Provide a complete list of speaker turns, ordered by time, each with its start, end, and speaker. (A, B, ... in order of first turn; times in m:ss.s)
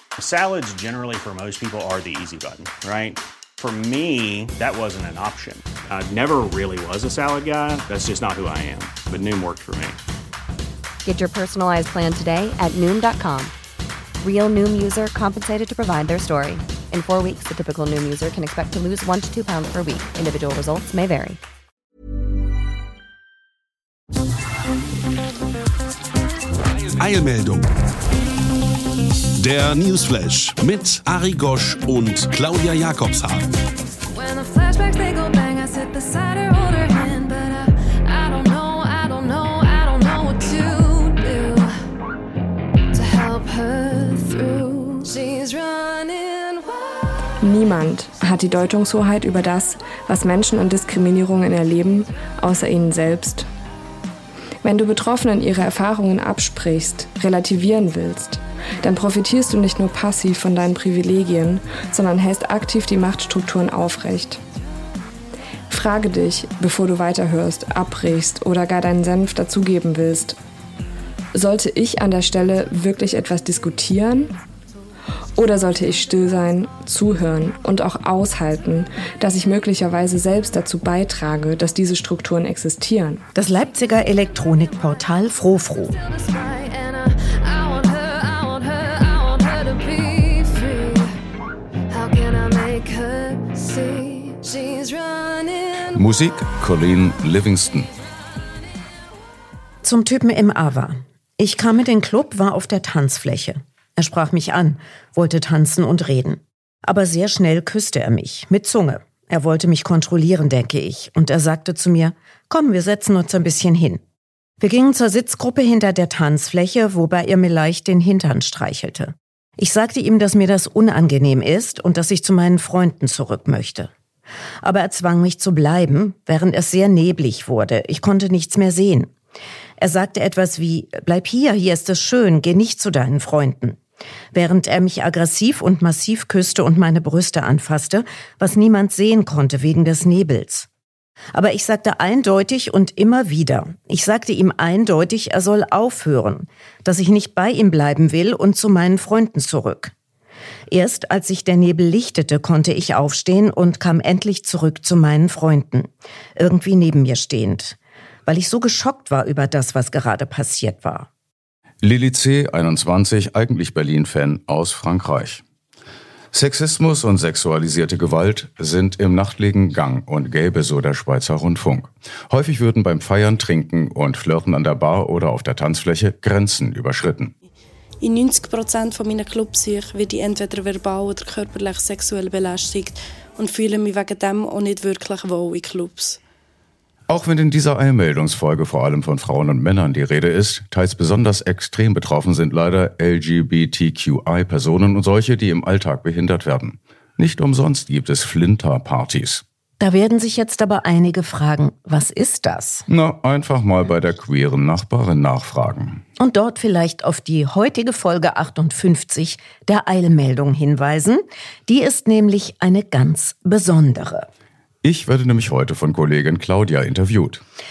0:00.2-0:10.0 A
0:11.0-0:13.5 B
0:14.2-0:21.4 B
0:27.0-0:27.7 C
0:29.4-0:33.5 C
0:34.1-0:41.7 D
0:42.9-0:47.3 D
0:47.4-0:53.5 E
0:54.6-1:04.4 E
1:05.7-1:10.4 E
1:11.3-1:14.3 E
1:15.4-1:23.2 E
1:23.4-1:26.0 F
1:26.0-1:31.1 D
1:31.9-1:36.0 D
1:35.9-1:37.9 G
1:39.8-1:54.0 F
1:54.6-2:03.9 F
2:04.6-2:09.1 F
2:09.8-2:13.8 F
2:14.3-2:20.7 F
2:21.3-2:29.9 F
2:30.7-2:41.1 F
2:41.8-2:45.4 G
2:46.3-2:57.3 G
2:58.0-3:06.2 H
3:07.1-3:19.4 G
3:19.8-3:22.9 F
3:22.9-3:26.0 G
3:26.2-3:34.3 F
3:34.8-3:37.4 G